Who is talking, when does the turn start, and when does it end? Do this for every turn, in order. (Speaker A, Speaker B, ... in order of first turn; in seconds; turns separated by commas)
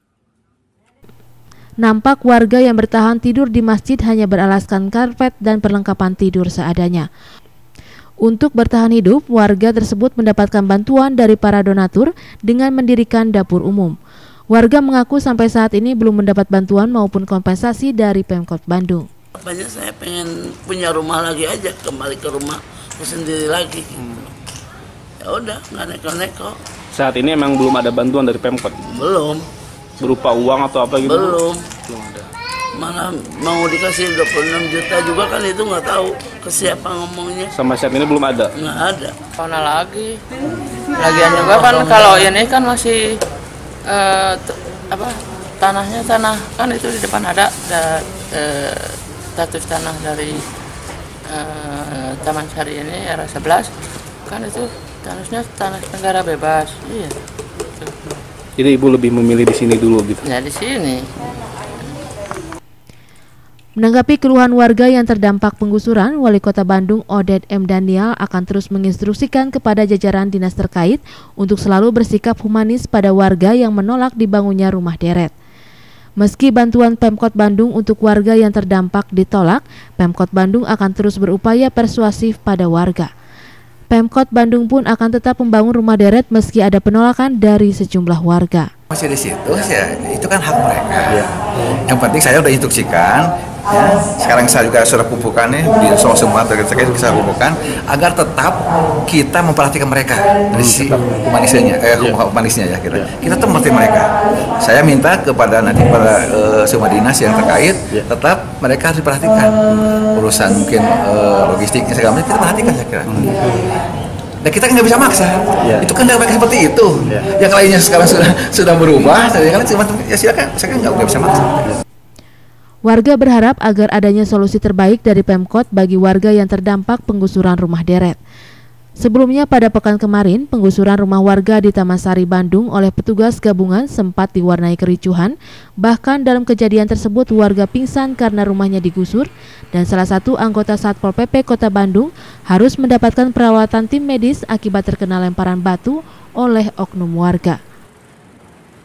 Speaker A: 1.8-7.1, Speaker A: 8.2-13.9, Speaker A: 14.5-19.1, Speaker B: 19.4-24.3, Speaker B: 25.2-26.6, Speaker C: 26.9-28.9, Speaker B: 28.9-29.5, Speaker C: 30.0-32.3, Speaker B: 31.0-31.7, Speaker B: 32.7-37.5, Speaker C: 37.5-38.5, Speaker B: 38.5-39.2, Speaker D: 39.4-40.2, Speaker D: 41.0-43.2, Speaker D: 43.9-50.4, Speaker D: 51.3-53.7, Speaker D: 54.3-57.2, Speaker D: 57.8-58.1, Speaker C: 58.6-60.2, Speaker D: 60.2-61.1, Speaker A: 63.8-75.3, Speaker A: 76.2-83.1, Speaker A: 83.9-88.7, Speaker E: 88.9-113.3, Speaker E: 114.4-121.7, Speaker A: 122.9-128.2, Speaker A: 129.0-147.6